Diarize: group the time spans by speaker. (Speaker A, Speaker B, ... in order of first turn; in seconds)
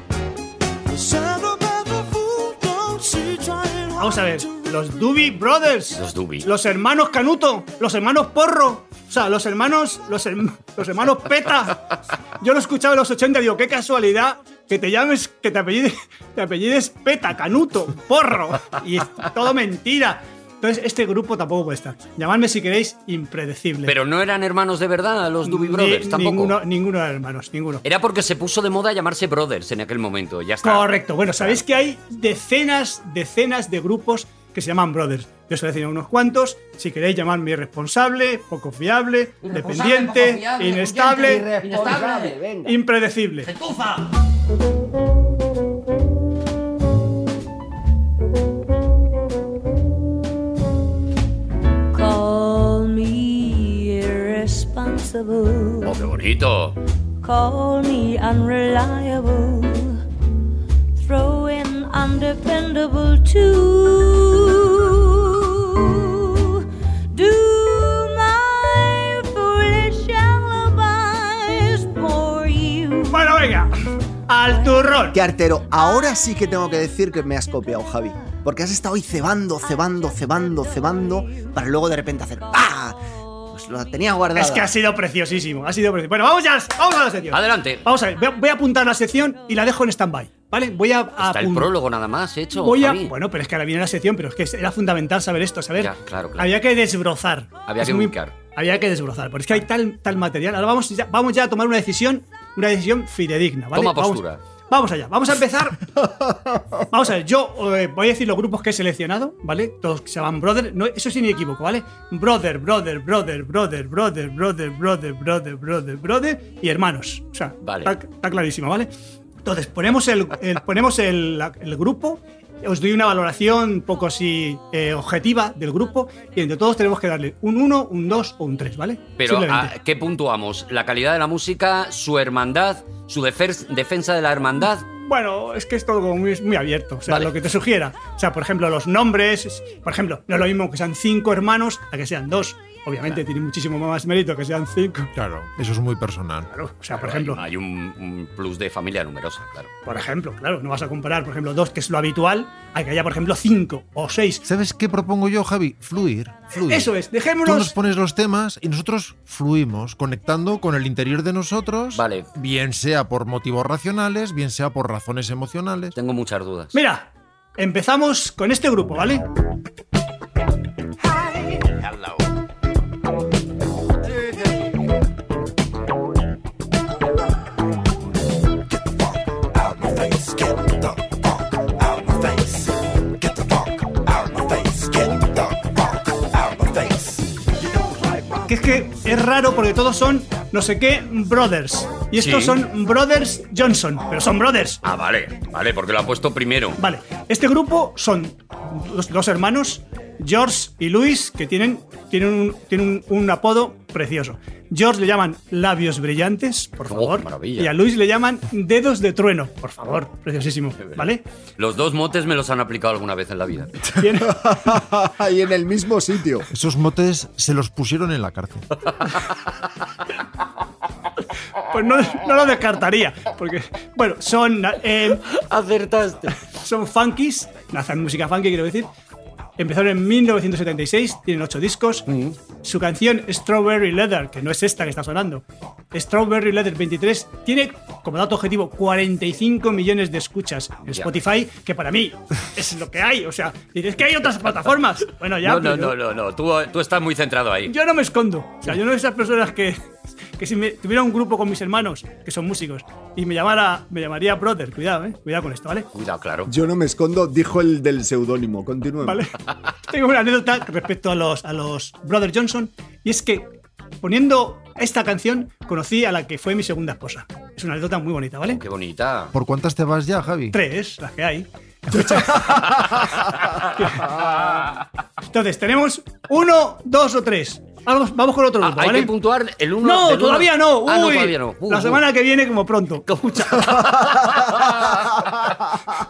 Speaker A: 0.9-4.6, 179.7-180.8, 182.1-182.4, 184.0-185.5, 186.4-187.0
Speaker B: 4.0-11.8, 12.4-23.9, 25.4-27.8, 30.6-41.5, 42.7-43.5, 73.1-73.7, 74.3-75.2, 84.3-91.7, 92.6-105.9, 106.9-118.9, 119.5-129.7, 134.9-145.1, 146.5-147.4, 149.9-154.4, 156.6-157.7, 166.7-169.2, 188.5-194.8, 196.8-211.2, 213.9-214.4, 221.7-225.2, 226.4-228.9, 229.6-232.1, 232.6-245.9, 247.7-249.8, 250.4-255.9, 259.0-259.3, 259.9-263.5, 264.0-268.6, 270.5-272.8, 273.8-274.1, 275.3-279.1, 279.8-283.7
Speaker C: 6.0-6.5, 23.9-26.6, 27.8-31.6, 39.5-42.4, 43.5-44.1, 55.8-56.8, 87.3-87.8, 91.2-93.1, 95.8-96.5, 97.7-98.3, 103.7-104.4, 117.6-117.9, 129.2-134.8, 137.1-137.3, 147.0-149.7, 161.9-162.3, 166.0-166.7, 192.2-192.6, 194.8-196.8, 206.9-207.7, 211.6-213.8, 218.9-219.2, 225.2-226.4, 232.1-232.4, 245.4-247.7, 255.9-256.5, 268.5-269.3, 278.6-282.0, 283.5-285.2
Speaker D: 41.3-42.8, 75.1-83.0, 83.5-84.7, 214.2-216.5, 256.5-259.3
Speaker E: 51.9-56.0, 57.2-60.0, 61.0-73.3, 74.5-74.8
Speaker F: 145.2-146.5, 154.4-156.9, 157.4-166.0, 216.5-218.7, 269.3-270.6